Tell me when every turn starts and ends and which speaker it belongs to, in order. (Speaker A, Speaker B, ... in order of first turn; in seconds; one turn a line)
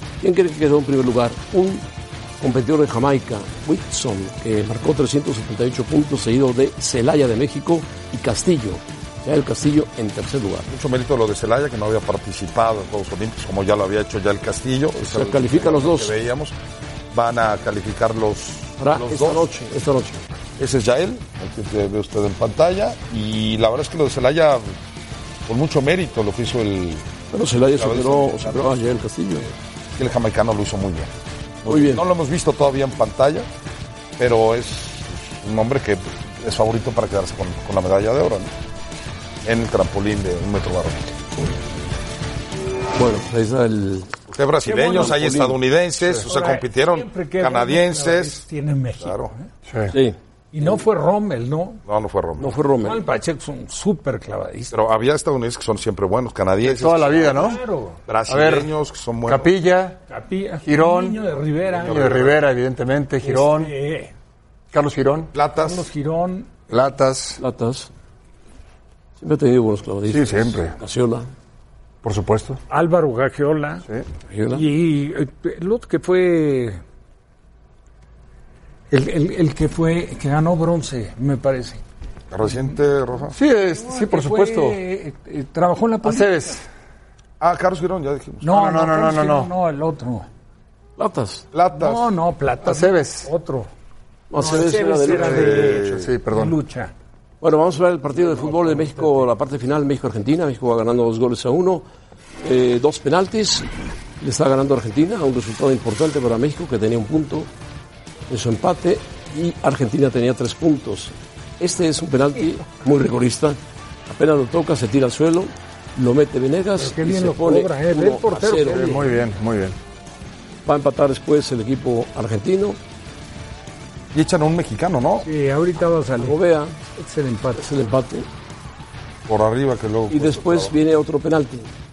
Speaker A: 0.2-1.8
Speaker A: 2.4-10.7
Speaker B: 10.7-16.6
Speaker A: 15.0-16.1
Speaker B: 17.1-19.5
Speaker A: 18.8-20.2
Speaker B: 20.6-24.8
Speaker B: 25.5-27.1
Speaker A: 27.3-29.5
Speaker B: 27.7-28.8
Speaker B: 30.0-31.1
Speaker B: 31.6-33.5
Speaker A: 31.7-32.0
Speaker B: 34.2-38.5
Speaker B: 39.4-41.1
Speaker A: 43.0-44.2
Speaker B: 44.3-48.4
Speaker C: 44.7-45.2
Speaker A: 44.7-45.6
Speaker C: 46.3-49.5
Speaker B: 49.0-49.3
Speaker D: 49.7-50.0
Speaker C: 50.5-51.8
Speaker B: 51.9-52.5
Speaker A: 52.4-53.0
Speaker C: 52.8-54.7
Speaker B: 54.7-57.4
Speaker D: 56.6-57.6
Speaker C: 57.1-58.0
Speaker B: 58.1-59.5
Speaker D: 58.3-58.7
Speaker D: 59.2-60.0
Speaker C: 60.1-62.0
Speaker D: 60.6-61.2
Speaker B: 61.7-62.4
Speaker D: 61.9-63.7
Speaker C: 63.2-64.1
Speaker D: 64.7-65.3
Speaker B: 65.3-65.9
Speaker C: 65.5-66.5
Speaker D: 66.7-67.4
Speaker A: 67.4-67.9
Speaker A: 69.2-71.3
Speaker D: 70.1-70.8
Speaker D: 72.0-72.6
Speaker C: 72.7-73.8
Speaker A: 74.3-74.7
Speaker C: 74.5-76.8
Speaker C: 78.9-81.8
Speaker B: 82.3-83.4
Speaker D: 83.3-84.8
Speaker C: 83.7-86.6
Speaker D: 86.0-86.6
Speaker B: 87.4-88.5
Speaker C: 88.4-90.3
Speaker D: 88.5-89.5
Speaker A: 91.0-91.5
Speaker B: 91.5-92.1
Speaker C: 91.7-93.7
Speaker D: 92.6-93.3
Speaker A: 94.3-95.5
Speaker C: 94.3-96.9
Speaker D: 95.1-96.6
Speaker B: 95.3-96.1
Speaker A: 97.4-101.8
Speaker A: 102.4-103.7
Speaker A: 104.2-107.5
Speaker A: 108.3-119.0
Speaker C: 116.8-119.0
Speaker D: 118.7-119.8
Speaker A: 120.7-122.8
Speaker B: 124.1-125.3
Speaker C: 125.2-126.4
Speaker A: 126.2-126.8
Speaker C: 126.9-127.6
Speaker A: 127.6-128.3
Speaker B: 129.3-130.8
Speaker A: 130.1-131.7